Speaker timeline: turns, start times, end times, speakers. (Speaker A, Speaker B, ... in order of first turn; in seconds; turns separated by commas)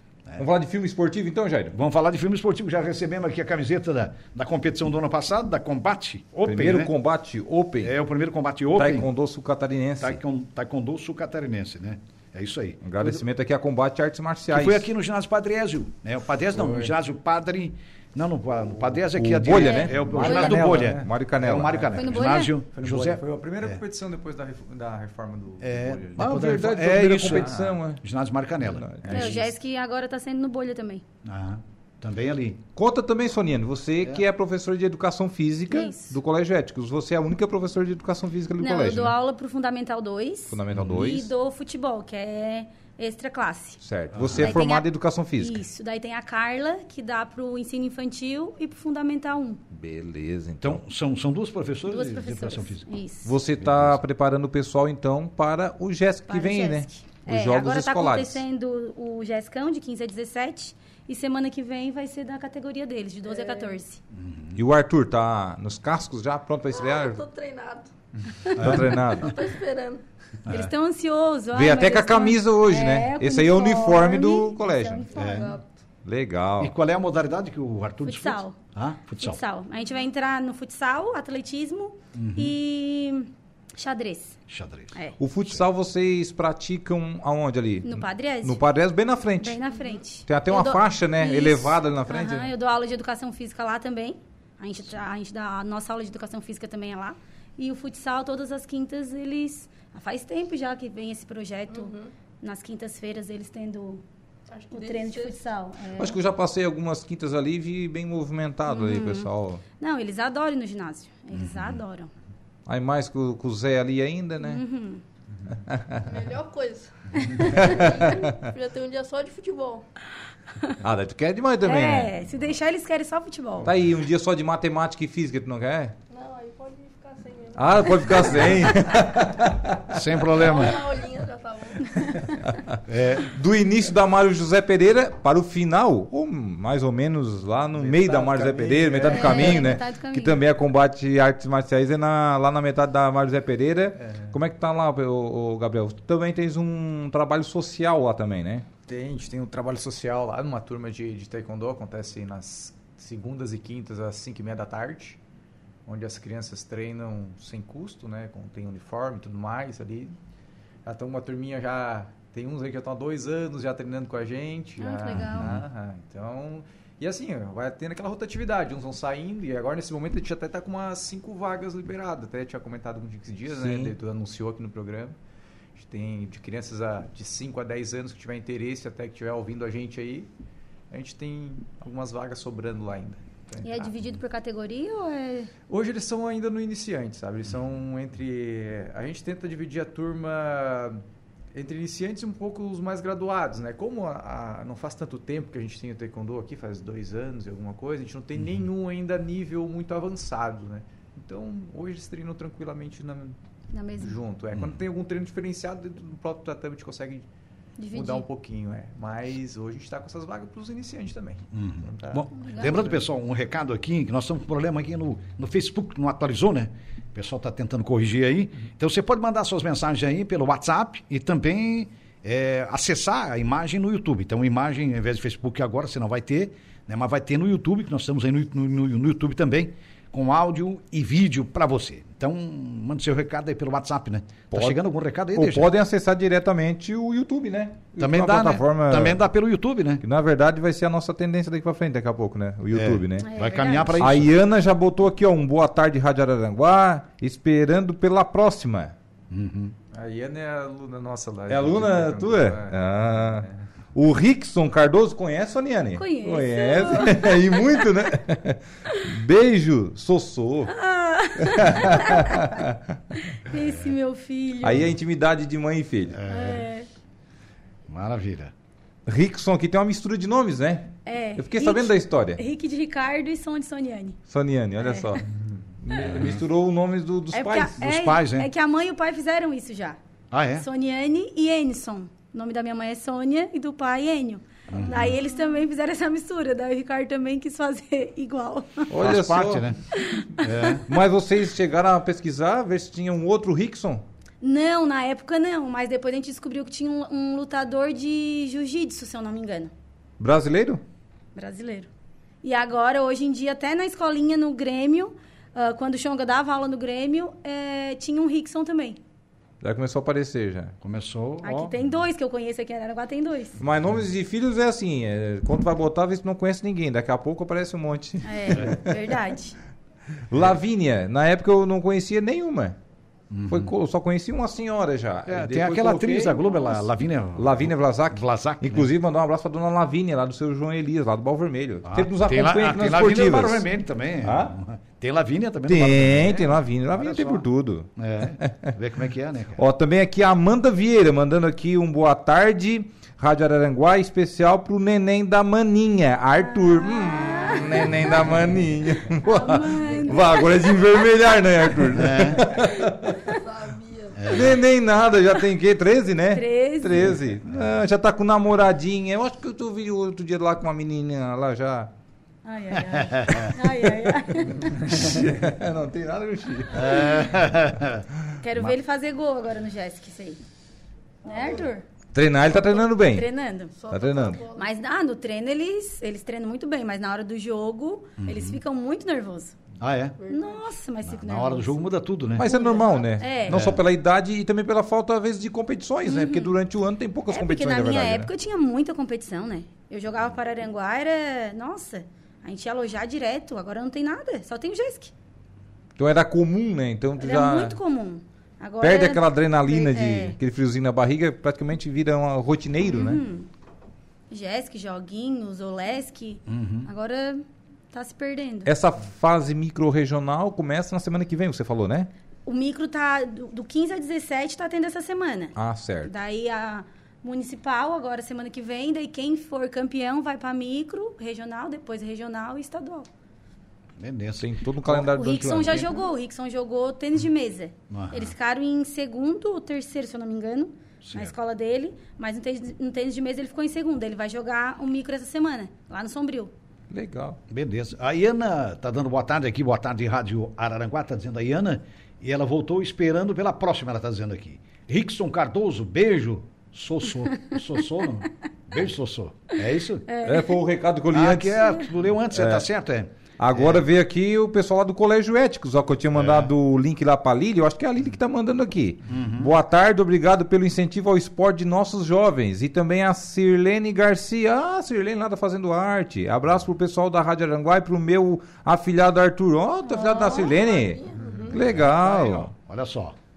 Speaker A: 0.4-1.8, Speaker B: 1.7-6.9, Speaker A: 6.4-7.9, Speaker B: 7.8-9.1, Speaker A: 8.8-10.2, Speaker B: 10.0-13.2, Speaker A: 12.8-14.9, Speaker B: 14.5-23.8, Speaker C: 16.6-16.9, Speaker A: 19.1-22.2, Speaker D: 19.5-20.6, Speaker C: 20.1-21.1, Speaker D: 21.9-22.5, Speaker C: 22.7-26.2, Speaker B: 25.6-29.4, Speaker A: 26.2-28.0, Speaker C: 27.2-27.7, Speaker A: 28.6-29.4, Speaker C: 29.0-29.3, Speaker D: 29.1-31.0, Speaker B: 31.2-32.6, Speaker A: 32.8-39.1, Speaker D: 35.7-36.2, Speaker D: 38.6-43.8, Speaker A: 40.5-41.3, Speaker B: 40.7-41.1, Speaker A: 43.8-45.6, Speaker B: 44.1-44.6, Speaker D: 44.4-49.6, Speaker A: 49.7-50.8, Speaker B: 50.6-52.9, Speaker D: 51.9-53.3, Speaker A: 53.2-58.4, Speaker B: 53.5-54.0, Speaker D: 56.3-64.0, Speaker E: 63.3-63.8, Speaker B: 64.1-64.6, Speaker A: 64.5-67.2, Speaker E: 66.7-67.9, Speaker B: 68.5-69.0, Speaker A: 68.6-69.4, Speaker E: 69.1-70.0, Speaker B: 70.5-70.7, Speaker D: 70.5-75.5, Speaker A: 71.5-75.2, Speaker E: 75.1-75.7, Speaker B: 75.1-75.5, Speaker A: 76.0-76.7, Speaker B: 76.6-79.4, Speaker D: 78.0-78.6, Speaker D: 79.2-84.4, Speaker B: 82.1-82.6, Speaker B: 84.5-85.0, Speaker A: 85.2-89.6, Speaker D: 87.8-88.6, Speaker D: 89.4-104.0, Speaker A: 90.2-92.5, Speaker E: 101.7-102.1, Speaker E: 104.5-105.4, Speaker D: 104.7-106.2, Speaker A: 106.0-109.6, Speaker D: 108.7-112.1, Speaker B: 111.3-111.8, Speaker A: 112.7-114.6, Speaker D: 114.4-115.0, Speaker A: 115.7-116.0, Speaker E: 116.0-119.8, Speaker A: 117.4-118.5, Speaker A: 120.8-122.1, Speaker D: 121.6-123.7, Speaker A: 123.6-125.9, Speaker E: 126.1-128.8, Speaker A: 127.5-130.0, Speaker B: 129.9-130.8, Speaker E: 130.3-132.2, Speaker D: 131.9-132.2, Speaker A: 132.4-148.7, Speaker B: 132.9-133.3, Speaker C: 137.8-139.8, Speaker D: 139.0-140.4, Speaker C: 144.0-144.3, Speaker C: 148.9-155.2, Speaker C: 155.8-160.2, Speaker C: 160.8-175.2, Speaker D: 164.8-165.5, Speaker B: 165.1-165.6, Speaker A: 173.5-173.9, Speaker C: 175.8-180.3, Speaker C: 180.9-183.9, Speaker D: 183.6-185.5, Speaker C: 185.7-191.0, Speaker C: 191.5-203.4, Speaker D: 203.7-204.2, Speaker C: 204.0-207.2, Speaker D: 207.8-208.2, Speaker C: 207.9-212.9, Speaker B: 211.5-235.7, Speaker D: 212.3-212.9, Speaker A: 234.5-234.8, Speaker A: 235.3-239.2, Speaker B: 238.0-240.0, Speaker A: 240.0-243.3, Speaker B: 242.7-244.4, Speaker D: 243.2-244.1, Speaker A: 244.0-248.9, Speaker B: 249.3-249.8, Speaker C: 249.9-253.6, Speaker A: 251.5-260.7, Speaker D: 255.9-257.7, Speaker D: 260.7-262.5, Speaker A: 261.4-262.8, Speaker D: 263.1-264.9, Speaker B: 263.5-263.9, Speaker A: 264.6-266.2, Speaker B: 266.1-266.7, Speaker D: 266.3-266.9, Speaker B: 267.9-268.5, Speaker A: 269.1-272.4, Speaker D: 271.0-274.2, Speaker A: 274.3-275.2, Speaker D: 274.8-275.2, Speaker A: 275.8-277.8, Speaker B: 276.1-276.4, Speaker D: 277.3-280.0, Speaker B: 277.8-278.5, Speaker B: 280.3-280.6, Speaker D: 280.5-288.9, Speaker B: 284.7-285.1, Speaker A: 288.9-289.7, Speaker B: 288.9-289.8, Speaker D: 289.9-290.8, Speaker B: 290.3-290.9, Speaker A: 290.9-294.0, Speaker D: 294.4-299.7, Speaker A: 300.2-300.8, Speaker D: 301.4-301.9, Speaker D: 302.4-309.0, Speaker A: 309.6-310.8, Speaker B: 310.8-311.8, Speaker D: 311.4-313.6, Speaker A: 313.6-319.0, Speaker D: 318.2-319.6, Speaker A: 320.3-322.8, Speaker B: 323.3-323.7, Speaker A: 323.5-326.8, Speaker B: 325.2-328.9, Speaker A: 327.4-333.6, Speaker B: 331.8-339.6, Speaker A: 334.2-334.5, Speaker A: 335.6-338.7, Speaker A: 339.6-353.2, Speaker D: 346.4-348.2, Speaker D: 349.2-351.1, Speaker B: 351.9-352.5, Speaker E: 353.2-354.4, Speaker B: 354.1-354.6, Speaker A: 354.3-361.9, Speaker D: 356.3-357.2, Speaker D: 362.4-365.1, Speaker B: 362.8-363.5, Speaker A: 364.4-367.3, Speaker B: 366.7-368.7, Speaker D: 368.4-370.4, Speaker D: 371.2-371.9, Speaker E: 371.2-371.6, Speaker A: 372.1-373.3, Speaker D: 372.4-373.7, Speaker E: 373.8-374.7, Speaker A: 373.9-374.4, Speaker D: 374.5-379.5, Speaker B: 378.2-378.6, Speaker B: 379.8-380.2, Speaker E: 380.2-380.7, Speaker D: 380.3-381.9, Speaker B: 381.0-382.5, Speaker A: 382.4-388.3, Speaker D: 382.4-383.6, Speaker B: 383.5-383.8, Speaker D: 386.0-386.6, Speaker D: 387.3-395.1, Speaker A: 396.0-397.8, Speaker D: 397.2-400.4, Speaker A: 398.8-403.2, Speaker D: 402.9-403.5, Speaker D: 404.3-408.7, Speaker B: 406.5-406.9, Speaker A: 408.6-412.1, Speaker D: 412.4-423.1, Speaker A: 415.6-416.1, Speaker B: 424.0-425.1, Speaker A: 424.4-425.9, Speaker D: 424.9-436.5, Speaker B: 427.9-428.3, Speaker B: 431.0-431.3, Speaker A: 436.9-437.4, Speaker B: 437.5-450.0, Speaker D: 450.1-450.6, Speaker A: 450.2-451.8, Speaker B: 451.1-453.9, Speaker A: 452.3-452.6, Speaker A: 453.4-472.5, Speaker B: 456.1-456.5, Speaker B: 459.1-459.6, Speaker D: 469.9-470.6, Speaker E: 470.3-471.6, Speaker B: 471.4-473.1